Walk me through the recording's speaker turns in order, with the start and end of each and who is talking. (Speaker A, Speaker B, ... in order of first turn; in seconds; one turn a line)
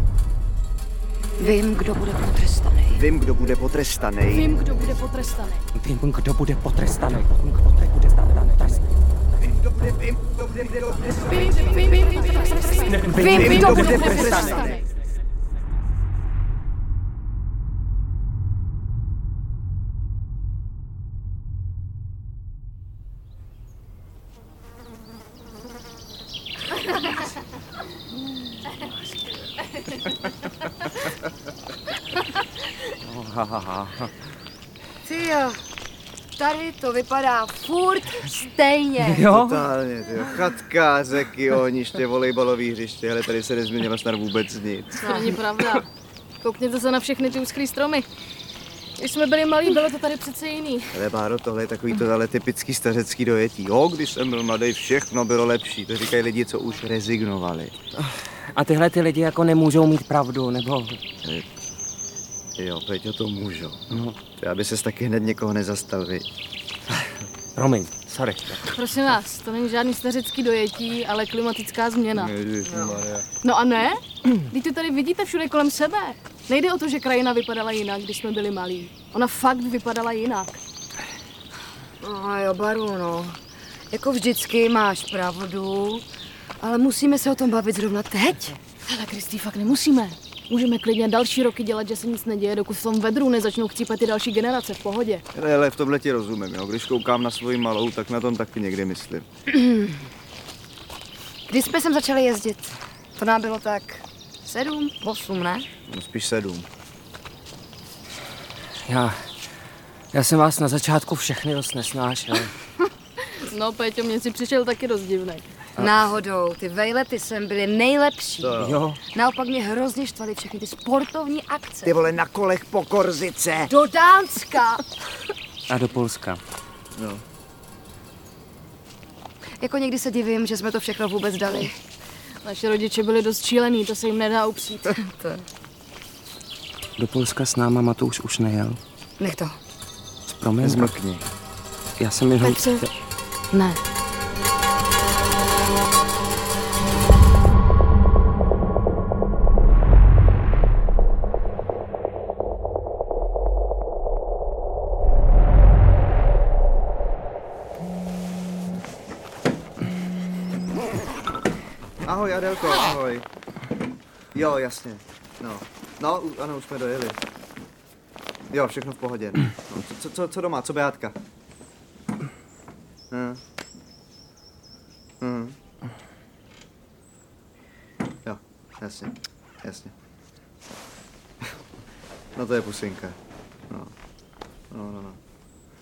Speaker A: 1.4-3.0
Speaker B: 2.9-4.5
Speaker C: 4.3-5.6
Speaker D: 5.7-8.8
Speaker B: 9.8-11.1
Speaker C: 11.3-14.8
Speaker D: 12.9-14.7
Speaker A: 13.1-14.5
Speaker B: 13.3-14.8
Speaker D: 28.6-29.4
Speaker D: 33.0-34.1
Speaker A: 35.0-35.6
Speaker A: 36.4-39.3
Speaker D: 39.0-39.7
Speaker B: 39.3-45.2
Speaker C: 45.0-45.9
Speaker C: 46.4-48.1
Speaker C: 49.0-51.0
Speaker B: 50.9-57.7
Speaker D: 58.0-61.0
Speaker B: 62.6-66.3
Speaker D: 67.5-68.7
Speaker C: 68.7-72.3
Speaker B: 72.1-73.2
Speaker A: 72.6-73.1
Speaker C: 73.4-80.6
Speaker A: 82.0-83.4
Speaker A: 83.9-86.0
Speaker A: 86.6-88.6
Speaker C: 88.8-95.2
Speaker B: 95.3-99.2
Speaker A: 99.5-99.9
Speaker A: 101.5-105.7
Speaker B: 105.9-106.7
Speaker D: 108.8-109.2
Speaker D: 110.1-112.5
Speaker C: 113.2-115.4
Speaker A: 115.8-122.1
Speaker B: 118.4-118.8
Speaker D: 118.5-119.0
Speaker B: 121.8-123.7
Speaker A: 123.7-124.8
Speaker D: 125.7-126.4
Speaker B: 127.0-127.2
Speaker A: 129.6-131.8
Speaker C: 132.4-135.0
Speaker A: 134.9-135.5
Speaker D: 137.0-138.8
Speaker A: 139.2-139.6
Speaker D: 140.3-140.9
Speaker B: 140.6-141.3
Speaker D: 142.0-142.9
Speaker A: 142.4-142.8
Speaker C: 143.5-143.8
Speaker B: 162.0-163.2
Speaker B: 164.3-167.2
Speaker B: 168.5-171.2
Speaker B: 173.1-173.4
Speaker B: 175.2-175.6
Speaker B: 178.2-179.9
Speaker B: 182.3-183.2
Speaker B: 184.7-185.2